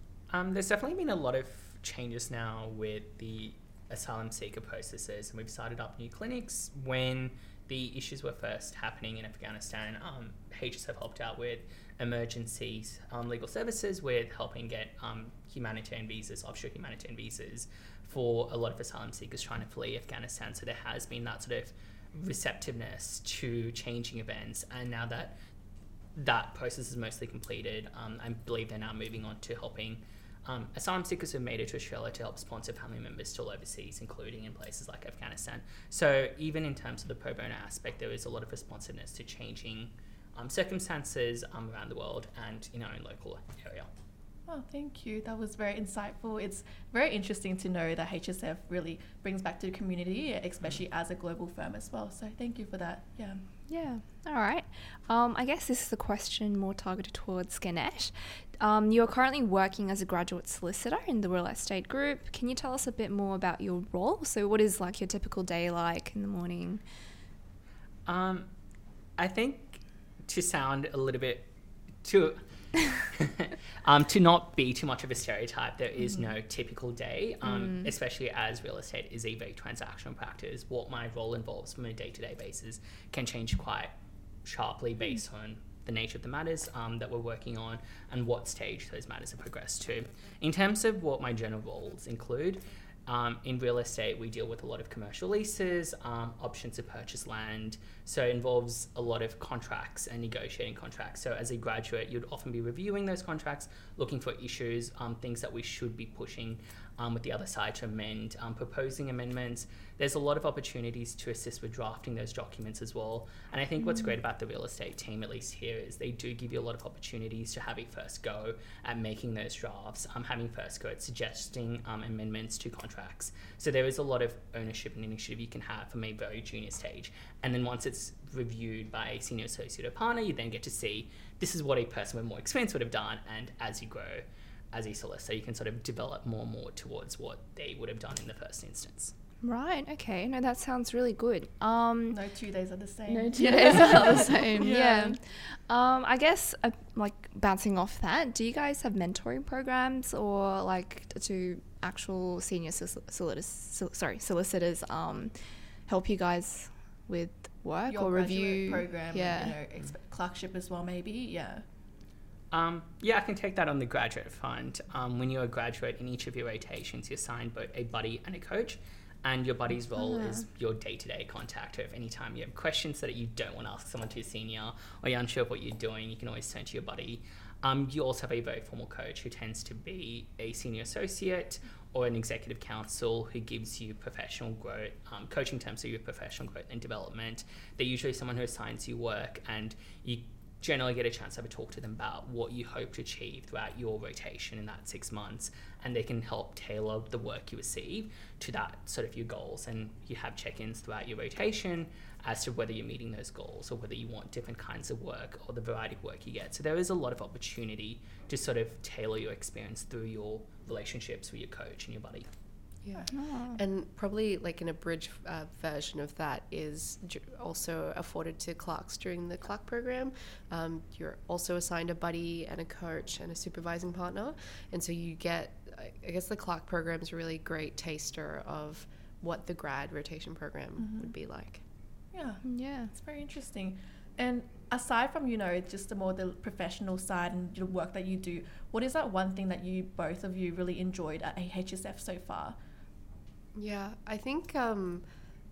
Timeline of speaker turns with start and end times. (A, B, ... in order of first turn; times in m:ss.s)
0:00.3-0:25.4 A
0:26.2-0:43.9 A
0:44.5-0:53.4 B
0:53.7-1:06.8 C
1:08.0-1:08.5 A
1:09.2-1:11.5 A
1:12.0-1:12.4 A
1:13.0-1:23.9 A
1:17.4-1:17.9 C
1:24.4-2:19.1 A
2:19.4-2:22.2 C
2:22.1-2:25.2 B
2:23.1-2:39.6 C
2:37.9-2:41.6 B
2:42.5-3:32.3 A
2:50.0-2:50.4 C
3:32.8-3:51.6 D
3:33.1-3:33.6 C
3:50.8-3:51.1 B
3:52.1-4:02.6 B
3:52.4-3:52.9 C
4:03.5-4:05.0 D